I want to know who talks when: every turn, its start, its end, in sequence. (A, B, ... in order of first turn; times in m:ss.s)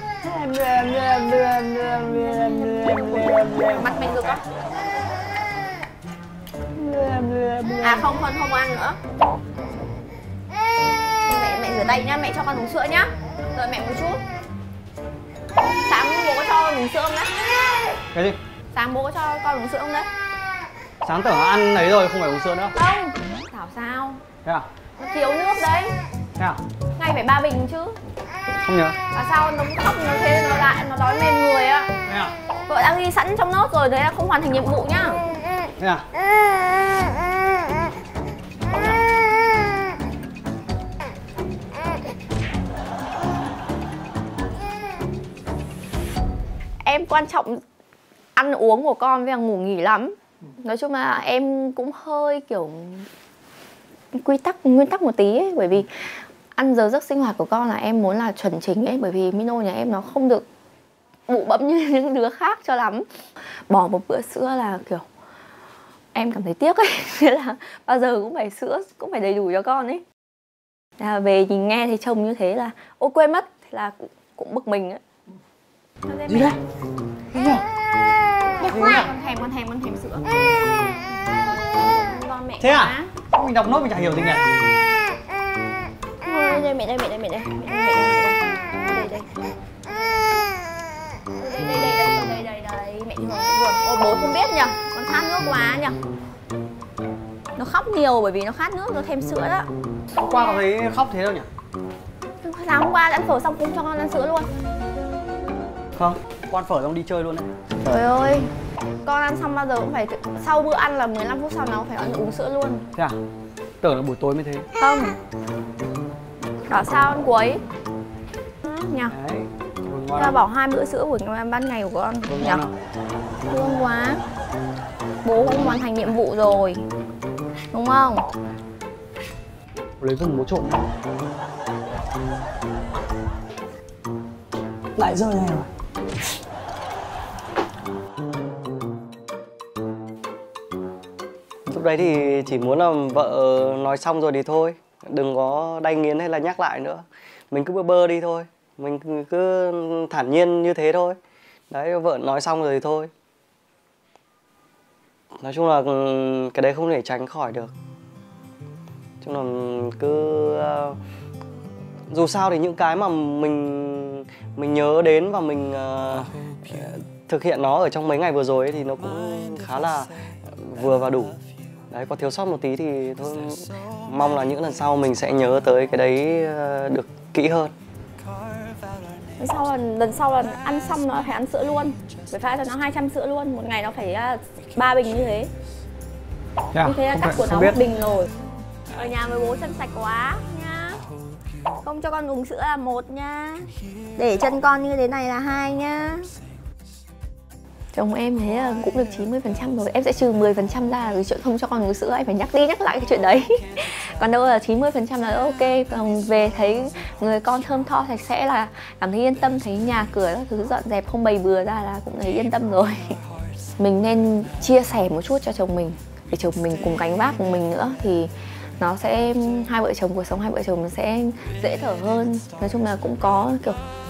0:00.2-0:04.0 A
0:03.6-0:04.4 B
0:06.8-0:08.0 A
0:07.8-0:09.0 B
0:11.2-0:14.2 B
0:15.8-0:17.4 B
0:18.7-0:20.1 B
0:21.0-0:22.7 C
0:22.8-0:24.2 B
0:25.0-0:26.0 B
0:27.0-0:28.0 B
0:28.6-0:29.0 C
0:29.1-0:31.9 B
0:32.1-0:32.3 C
0:32.7-0:35.3 B
0:35.8-0:36.0 C
0:38.7-0:39.0 C
0:46.8-0:47.6 B
0:48.4-0:53.1 B
0:54.1-1:00.4 B
1:01.3-1:03.1 B
1:03.7-1:05.0 B
1:06.1-1:10.0 B
1:11.0-1:15.0 B
1:16.1-1:16.6 B
1:18.5-1:20.4 B
1:18.7-1:19.1 C
1:21.5-1:23.1 B
1:22.6-1:24.4 C
1:26.2-1:29.3 B
1:31.4-1:36.0 B
1:37.6-1:39.7 B
1:40.2-1:41.5 C
1:42.4-1:44.5 B
1:46.0-1:47.5 C
1:47.8-1:48.5 B
1:49.0-1:52.8 B
1:53.8-1:54.7 C
1:54.8-1:55.2 B
1:56.7-1:57.6 B
1:58.6-1:59.2 B
1:59.1-2:00.4 C
2:00.2-2:02.7 B
2:02.3-2:02.6 C
2:03.5-2:04.2 B
2:05.2-2:06.8 B
2:07.7-2:08.3 B
2:10.0-2:10.8 C
2:10.6-2:10.8 A
2:15.0-2:15.7 A
2:21.7-2:31.2 A
2:31.7-2:33.1 A
2:35.4-2:37.7 A
2:39.2-2:41.0 A
2:42.1-2:51.4 A
2:51.9-2:57.7 A
2:59.4-3:05.5 B
3:06.8-3:07.7 A
3:06.8-3:07.7 C
3:06.8-3:08.3 B
3:08.9-3:11.0 B
3:11.8-3:16.3 B
3:17.9-3:33.2 B
3:33.8-3:43.8 B